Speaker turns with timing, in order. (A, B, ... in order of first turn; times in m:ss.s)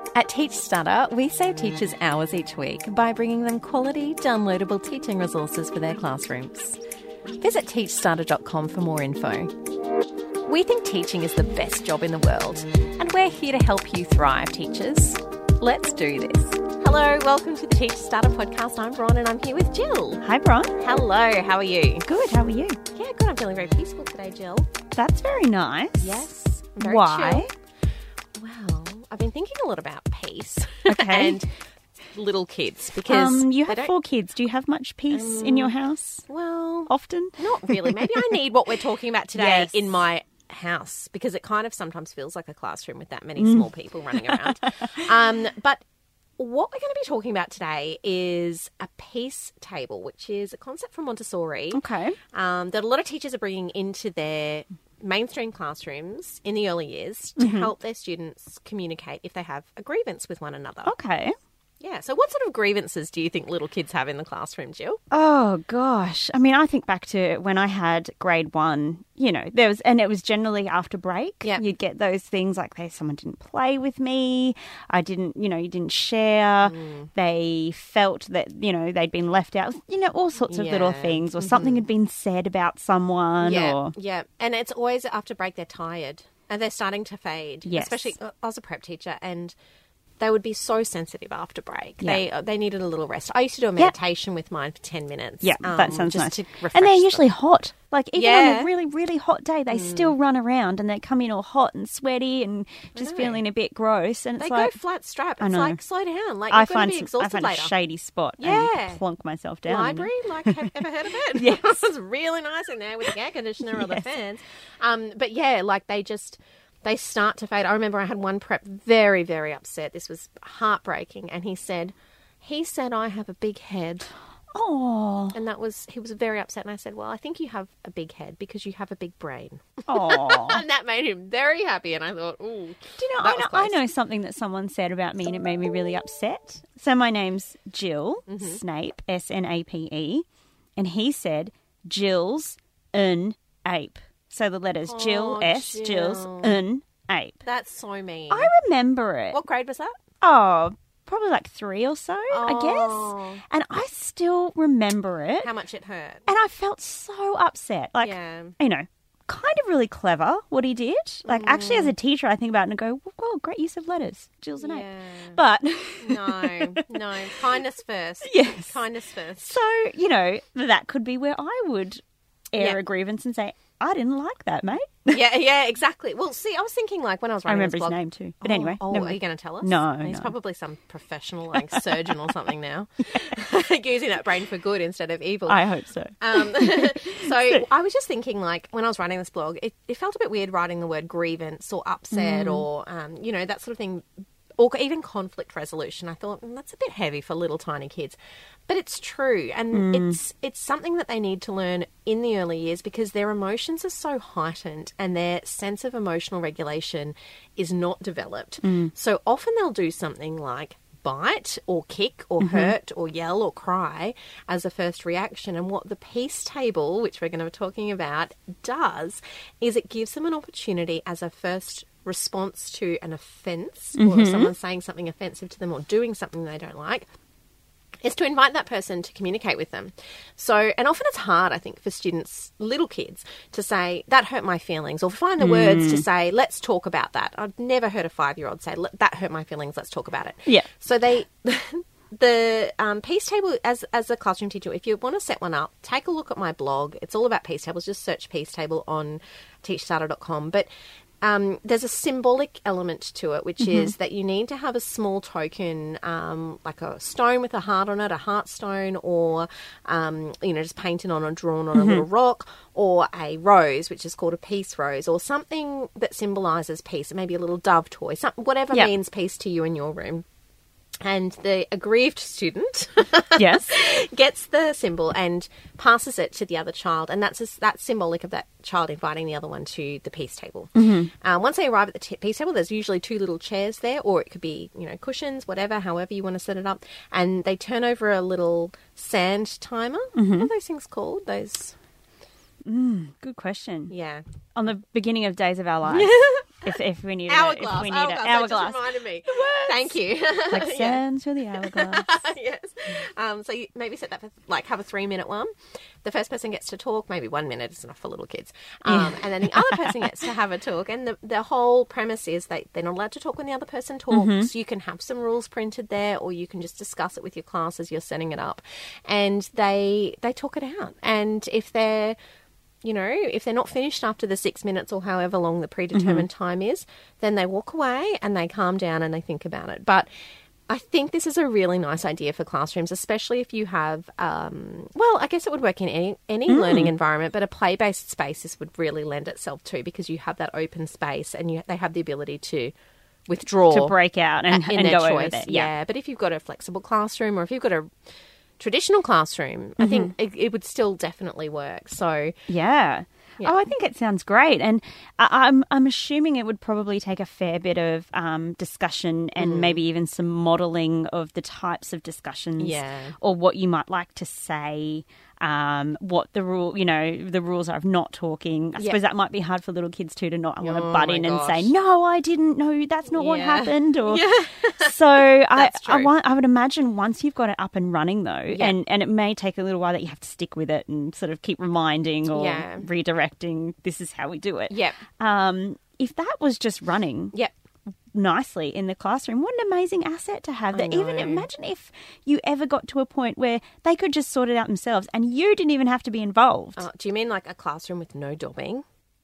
0:00.2-0:06.8 A
0:07.4-0:09.5 A
0:10.5-0:20.2 A
0:20.2-0:20.8 B
0:20.8-0:22.1 A
0:22.1-0:22.8 B
0:22.9-0:24.7 A
0:24.9-0:26.3 B
0:26.0-0:27.5 A
0:26.8-0:27.5 B
0:28.4-0:31.5 A
0:30.9-0:31.4 B
0:32.1-0:33.9 A
0:33.1-0:36.2 B
0:35.1-0:35.8 A
0:36.3-0:45.8 A
0:36.9-0:38.3 B
0:39.4-0:39.9 B
0:43.4-0:44.9 B
0:46.4-0:51.8 A
0:51.7-0:52.2 B
0:52.3-1:00.9 A
0:57.4-0:57.7 B
1:00.9-1:01.3 B
1:01.8-1:05.0 A
1:05.1-1:23.9 B
1:16.6-1:17.1 A
1:20.5-1:21.8 A
1:23.4-1:29.6 A
1:27.6-1:28.2 B
1:30.2-1:37.3 A
1:35.4-1:44.7 B
1:38.2-1:38.7 A
1:39.7-1:40.1 A
1:43.0-1:43.4 A
1:44.4-1:47.7 A
1:45.4-1:45.8 B
1:46.5-1:50.8 B
1:48.4-1:49.0 A
1:49.7-2:04.1 A
1:51.3-1:51.7 B
1:53.7-1:54.1 B
2:04.5-2:05.4 B
2:05.3-2:13.8 A
2:09.9-2:10.6 B
2:13.0-2:20.3 B
2:18.3-2:18.6 A
2:20.8-2:27.4 B
2:24.8-2:26.6 A
2:27.4-2:28.5 A
2:28.3-2:29.4 B
2:29.3-2:30.0 A
2:30.2-2:35.5 B
2:32.3-2:33.4 A
2:35.4-2:36.3 A
2:36.3-2:46.9 B
2:38.0-2:38.6 A
2:41.3-2:41.9 A
2:44.6-2:45.4 A
2:46.0-2:49.6 A
2:48.2-2:48.8 B
2:49.4-2:55.2 B
2:55.1-3:05.6 A
2:57.5-3:00.3 B
3:05.5-3:07.6 B
3:06.2-3:14.1 A
3:12.1-3:12.6 B
3:14.6-3:47.1 A
3:19.7-3:20.2 B
3:28.6-3:28.9 B
3:32.4-3:32.7 B
3:44.0-3:44.5 B
3:48.0-4:10.7 A
3:55.4-3:56.0 B
4:11.2-4:30.2 A
4:13.6-4:13.9 B
4:21.7-4:22.0 B
4:31.0-4:51.8 A
4:33.4-4:33.7 B
4:40.8-4:41.1 B
4:50.2-4:50.5 B
4:52.7-4:53.9 B
4:53.9-4:54.2 A
4:54.6-4:59.9 B
4:55.8-5:01.0 A
5:00.5-5:02.1 B
5:01.6-5:05.5 A
5:06.0-5:22.2 A
5:08.9-5:09.8 B
5:14.1-5:14.5 B
5:22.8-5:30.1 A
5:25.9-5:26.3 B
5:30.7-5:42.7 A
5:36.5-5:36.9 B
5:43.3-5:43.9 A
5:43.7-5:45.7 B
5:44.5-5:47.9 A
5:48.6-5:52.4 A
5:49.8-5:50.1 B
5:52.5-6:27.3 B
5:53.4-5:53.6 A
5:59.4-5:59.8 A
6:02.6-6:03.2 A
6:10.6-6:11.7 A
6:13.1-6:16.1 A
6:18.5-6:18.8 A
6:22.3-6:22.9 A
6:24.7-6:25.0 A
6:28.1-6:36.9 B
6:30.7-6:31.5 A
6:36.8-6:38.8 A